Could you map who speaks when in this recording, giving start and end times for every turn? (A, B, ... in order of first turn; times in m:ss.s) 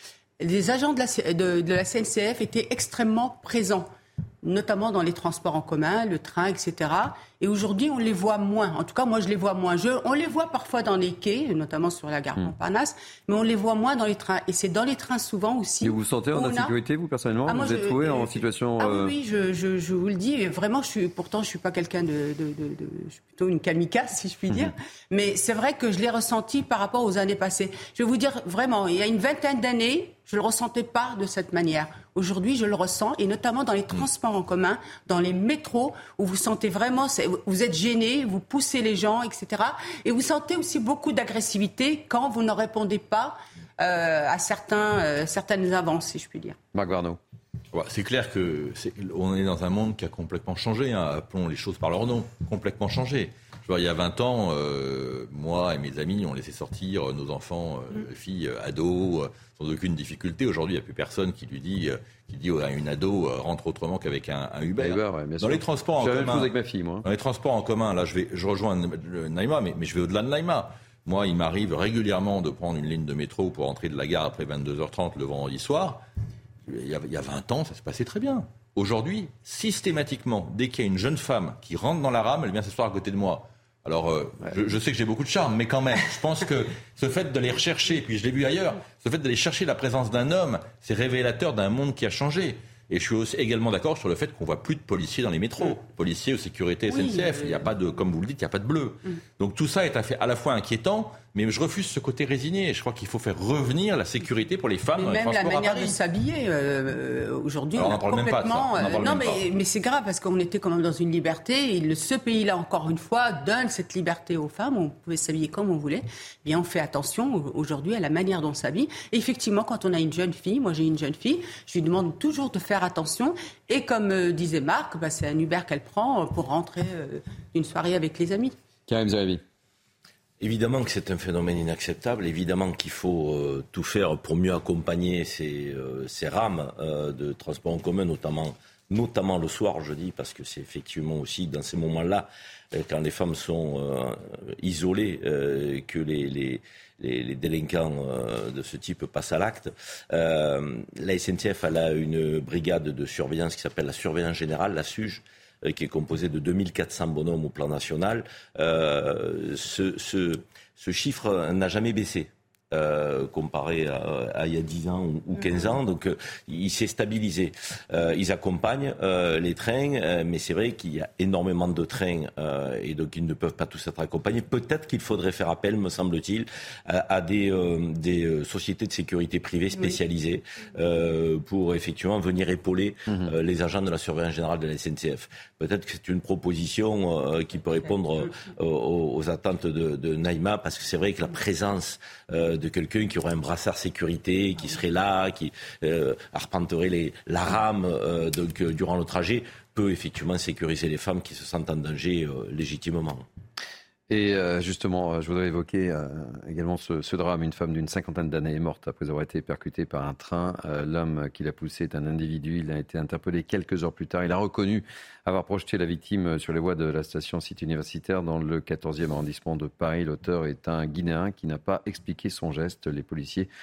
0:00.4-0:03.9 A
0:04.4-0:16.7 A
0:15.8-0:19.1 B
0:17.5-0:46.6 A
0:46.7-0:47.2 B
0:47.7-1:06.5 C
1:04.8-1:07.0 B
1:07.0-1:16.0 C
1:16.6-1:46.0 C
1:36.9-1:37.6 A
1:45.0-2:08.6 A
1:47.8-1:49.4 C
2:08.9-2:09.4 B
2:10.4-3:23.3 D
3:24.1-3:43.5 B